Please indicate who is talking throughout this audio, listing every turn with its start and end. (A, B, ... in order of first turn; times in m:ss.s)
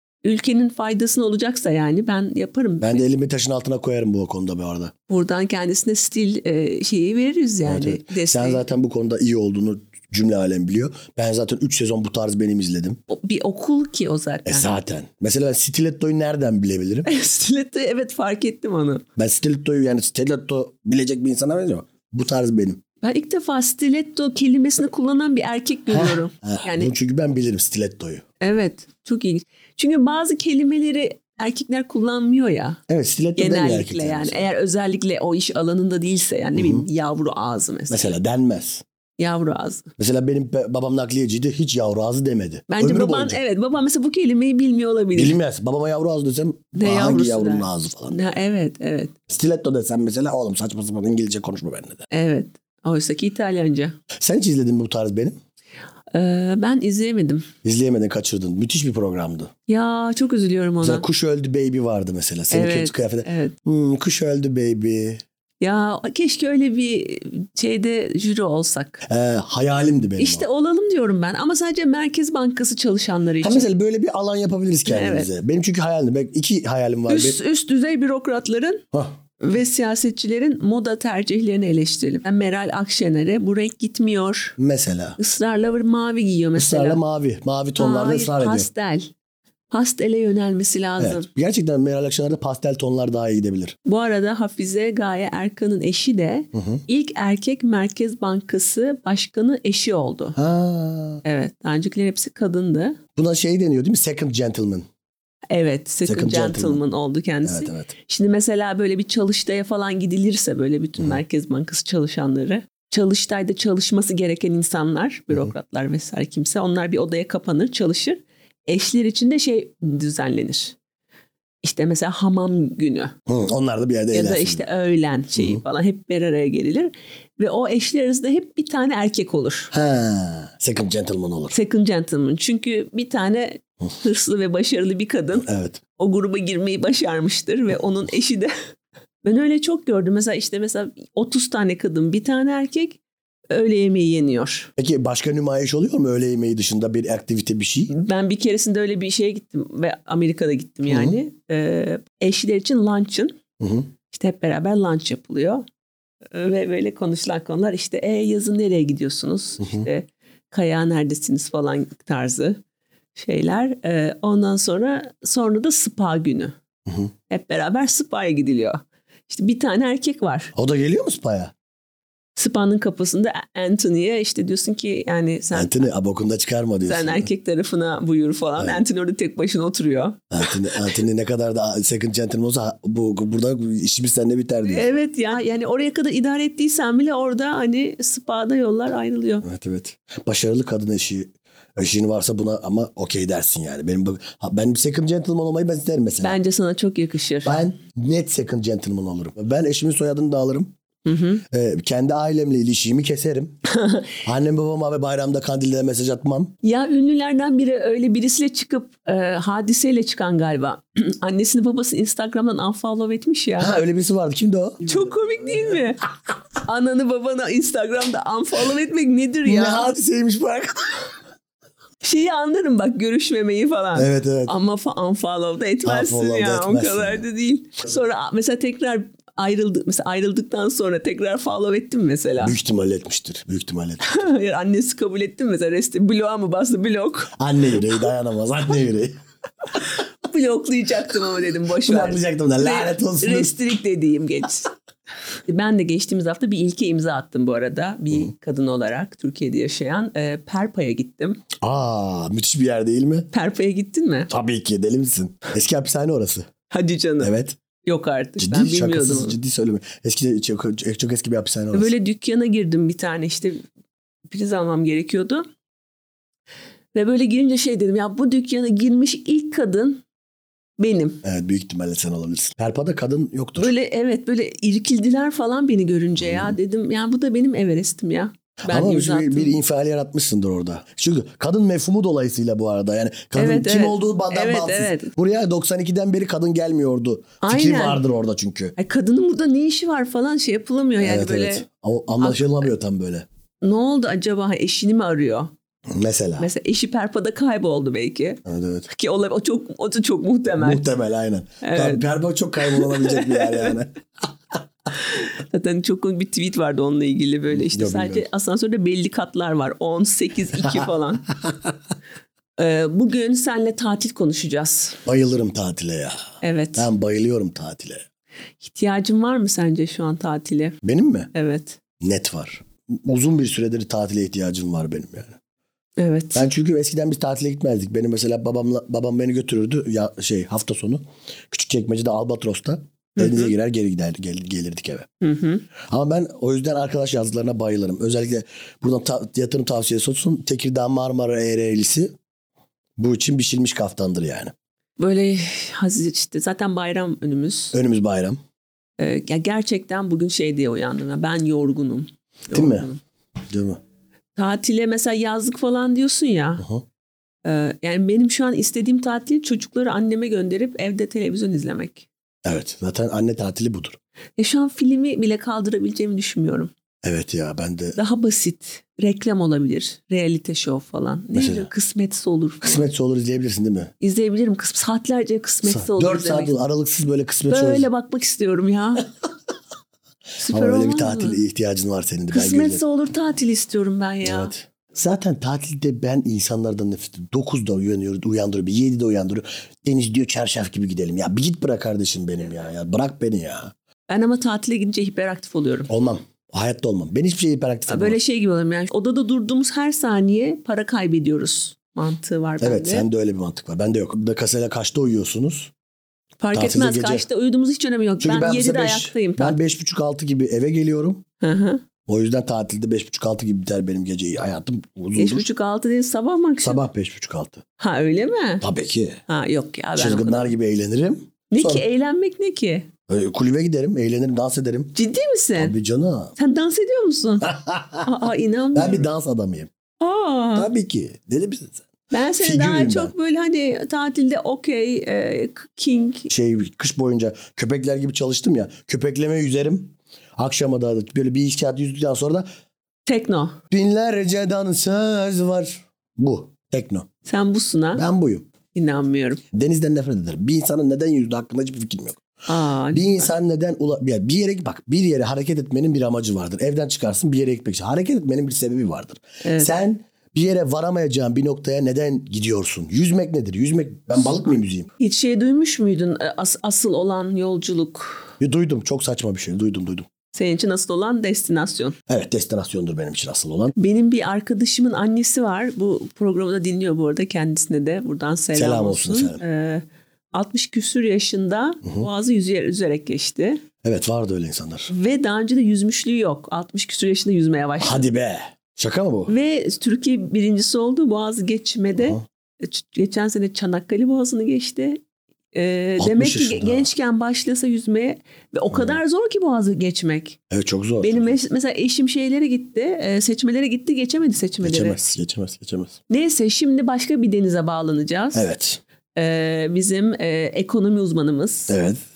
0:00.2-0:03.0 A
0:02.8-0:04.9 B
0:05.1-0:08.6 A
0:07.6-0:13.0 B
0:13.1-0:14.7 A
0:14.4-0:17.1 B
0:17.0-0:19.0 A
0:19.2-0:22.8 B
0:23.0-0:26.9 A
0:25.9-0:28.2 B
0:28.4-0:32.8 A
0:32.9-0:34.4 B
0:33.4-0:38.1 A
0:36.6-0:36.8 B
0:37.9-0:38.8 B
0:39.2-0:39.9 A
0:40.0-0:43.4 B
0:42.7-0:45.4 A
0:45.1-0:48.2 B
0:46.7-0:49.1 A
0:49.3-0:52.1 B
0:52.1-0:54.0 A
0:54.2-0:55.4 B
0:56.1-0:57.5 A
0:57.6-0:59.5 B
0:59.7-1:01.0 A
1:00.8-1:05.2 B
1:02.5-1:03.5 A
1:05.6-1:09.0 A
1:09.0-1:10.4 B
1:10.2-1:13.7 A
1:13.4-1:17.4 B
1:14.8-1:15.3 A
1:17.1-1:18.8 A
1:19.4-1:24.6 A
1:24.6-1:25.2 B
1:25.2-1:27.0 A
1:26.6-1:28.7 B
1:27.8-1:29.1 A
1:29.7-1:31.3 A
1:31.0-1:33.8 B
1:33.8-1:40.4 A
1:36.5-1:36.8 B
1:40.4-1:41.2 B
1:41.2-1:43.0 A
1:43.2-1:44.9 B
1:45.5-2:00.8 A
1:46.0-1:46.8 B
1:47.4-1:47.9 B
2:01.6-2:03.1 A
2:03.3-2:04.6 B
2:04.1-2:09.7 A
2:05.4-2:05.6 B
2:09.7-2:11.6 B
2:11.5-2:18.5 A
2:15.4-2:15.8 B
2:19.2-2:23.0 A
2:23.5-2:24.7 A
2:24.8-2:27.9 B
2:27.9-2:33.4 A
2:30.9-2:31.2 B
2:33.6-2:33.9 B
2:34.1-2:35.6 A
2:36.3-2:42.6 A
2:39.6-2:39.9 B
2:43.1-2:46.6 A
2:46.9-2:47.1 B
2:47.3-2:50.5 A
2:50.5-2:51.5 B
2:52.4-2:55.8 A
2:55.5-2:57.3 B
2:56.8-3:00.7 A
3:00.3-3:04.9 B
3:04.7-3:09.4 A
3:09.4-3:16.4 B
3:16.2-3:17.6 A
3:17.4-3:20.7 B
3:21.0-3:21.4 A
3:21.5-3:23.6 B
3:23.7-3:24.1 A
3:24.2-3:26.5 B
3:26.6-3:33.8 A
3:33.6-3:34.8 B
3:34.8-3:36.0 A
3:36.6-3:39.9 A
3:39.4-3:41.2 B
3:42.0-3:52.6 A
3:43.9-3:44.5 B
3:45.8-3:47.2 B
3:52.4-3:54.1 B
3:54.0-3:57.3 A
3:57.4-3:59.2 B
4:00.2-4:04.7 A
4:01.8-4:03.5 B
4:05.5-4:11.4 A
4:11.6-4:13.3 B
4:13.3-4:14.3 A
4:14.3-4:16.5 B
4:16.7-4:17.3 A
4:17.2-4:17.6 B
4:17.8-4:19.4 A
4:18.4-4:21.9 B
4:21.7-4:23.6 A
4:24.3-4:25.4 A
4:26.9-4:30.0 A
4:30.8-4:31.2 A
4:31.2-4:33.7 B
4:33.6-4:39.6 A
4:36.2-4:36.6 B
4:38.7-4:48.7 B
4:43.4-4:45.1 A
4:47.4-4:48.0 A
4:48.8-4:51.6 A
4:51.0-4:53.2 B
4:52.2-4:52.6 A
4:53.6-4:55.5 A
4:55.9-4:56.5 B
4:56.4-5:00.8 A
4:58.4-4:58.9 B
5:00.6-5:03.9 B
5:01.6-5:02.0 A
5:02.6-5:03.8 A
5:05.0-5:11.3 A
5:07.5-5:08.2 B
5:12.6-5:15.0 A
5:15.0-5:16.2 B
5:16.4-5:16.9 A
5:16.8-5:18.0 B
5:18.6-5:20.8 A
5:20.8-5:21.3 B
5:21.3-5:21.8 A
5:22.0-5:25.4 B
5:26.0-5:26.5 A
5:26.3-5:35.1 B
5:33.2-5:33.5 A
5:35.2-5:35.6 A
5:35.8-5:42.1 B
5:43.0-5:44.5 B
5:45.0-5:47.7 A
5:47.7-5:48.4 B
5:49.0-5:53.0 A
5:52.5-5:52.9 B
5:53.5-5:53.8 B
5:54.4-5:56.6 A
5:57.4-6:02.1 A
6:02.4-6:04.0 B
6:04.4-6:06.7 A
6:07.0-6:08.0 B
6:08.0-6:12.9 A
6:11.3-6:11.7 B
6:12.6-6:13.9 B
6:14.0-6:16.5 A
6:15.6-6:17.9 B
6:17.5-6:19.1 A
6:20.4-6:21.4 A
6:20.5-6:22.8 B
6:22.3-6:24.5 A
6:24.2-6:33.7 B
6:34.1-6:35.9 A
6:35.9-6:38.2 B
6:37.9-6:43.0 A
6:42.6-6:45.7 B
6:46.4-6:49.6 A
6:46.5-6:47.2 B
6:48.2-6:51.2 B
6:51.4-6:51.8 A
6:52.1-6:55.4 B
6:55.2-6:56.8 A
6:56.6-6:57.6 B
6:57.8-6:58.6 A
6:58.6-6:59.2 B
6:59.3-7:00.5 A
7:00.0-7:01.8 B
7:01.5-7:02.9 A
7:03.1-7:04.9 B
7:04.9-7:05.7 A
7:05.6-7:06.3 B
7:06.4-7:07.5 A
7:07.4-7:08.1 B
7:08.0-7:09.0 A
7:08.7-7:09.7 B
7:10.0-7:10.7 A
7:10.6-7:11.8 B
7:12.1-7:16.3 A
7:12.4-7:13.1 B
7:16.3-7:22.4 B
7:23.0-7:23.6 A
7:23.7-7:27.1 B
7:27.2-7:28.0 A
7:28.0-7:28.5 B
7:28.7-7:29.4 A
7:29.5-7:32.2 B
7:32.5-7:33.3 A
7:32.9-7:44.9 B
7:39.4-7:39.7 A
7:45.0-7:48.3 A
7:48.4-7:50.1 B
7:50.3-7:52.0 A
7:52.1-7:53.7 B
7:53.8-8:03.6 A
7:58.5-7:59.4 B
8:03.8-8:04.9 B
8:04.9-8:08.1 A
8:07.8-8:09.3 B
8:09.3-8:15.0 A
8:15.5-8:20.4 A
8:16.0-8:16.9 B
8:18.7-8:19.0 B
8:20.5-8:21.4 B
8:21.0-8:25.0 A
8:24.6-8:26.0 B
8:26.1-8:28.5 A
8:28.3-8:28.8 B
8:29.2-8:31.8 A
8:31.7-8:32.0 B